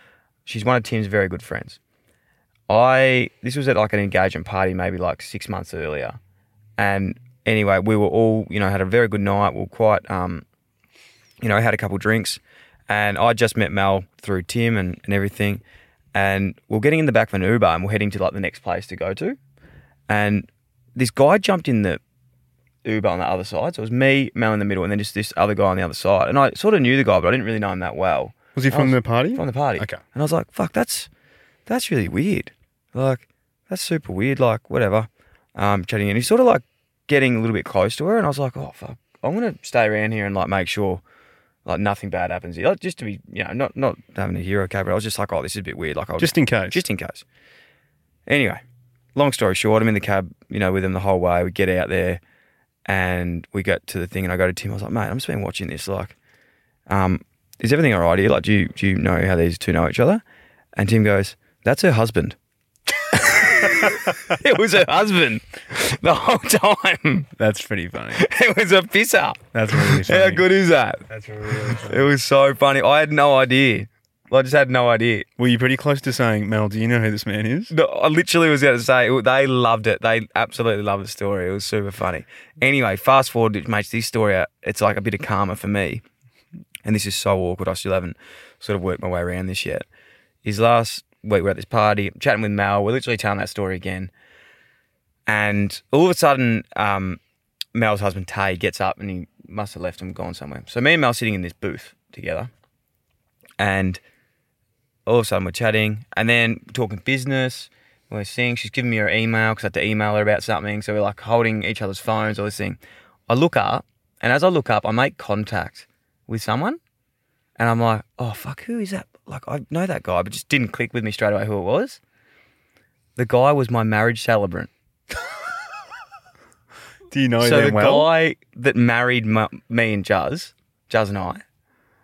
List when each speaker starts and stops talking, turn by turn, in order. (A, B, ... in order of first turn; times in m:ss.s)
0:00.4-0:01.8 A
0:02.7-0:06.2 A
0:06.8-0:10.4 A
0:11.4-0:15.6 A
0:16.1-0:19.4 A
0:20.1-0:22.0 A
0:22.8-0:31.1 A
0:28.6-0:30.0 B
0:31.7-0:41.0 A
0:41.6-0:47.2 A
0:46.2-0:46.8 B
0:48.3-0:48.6 A
0:49.1-0:52.2 A
0:52.9-0:56.2 A
0:56.9-1:00.2 A
1:00.8-1:02.4 A
1:03.1-1:07.3 A
1:07.4-1:08.2 B
1:08.1-1:15.3 A
1:09.5-1:10.4 B
1:11.1-1:12.0 B
1:15.4-1:17.7 B
1:17.7-1:26.0 A
1:26.8-1:29.8 A
1:30.4-1:34.1 A
1:35.3-1:37.2 A
1:37.7-1:42.5 A
1:43.6-1:44.0 A
1:45.0-1:56.8 A
1:57.6-2:02.0 A
2:03.2-2:04.7 A
2:07.1-2:08.1 B
2:07.4-2:11.4 A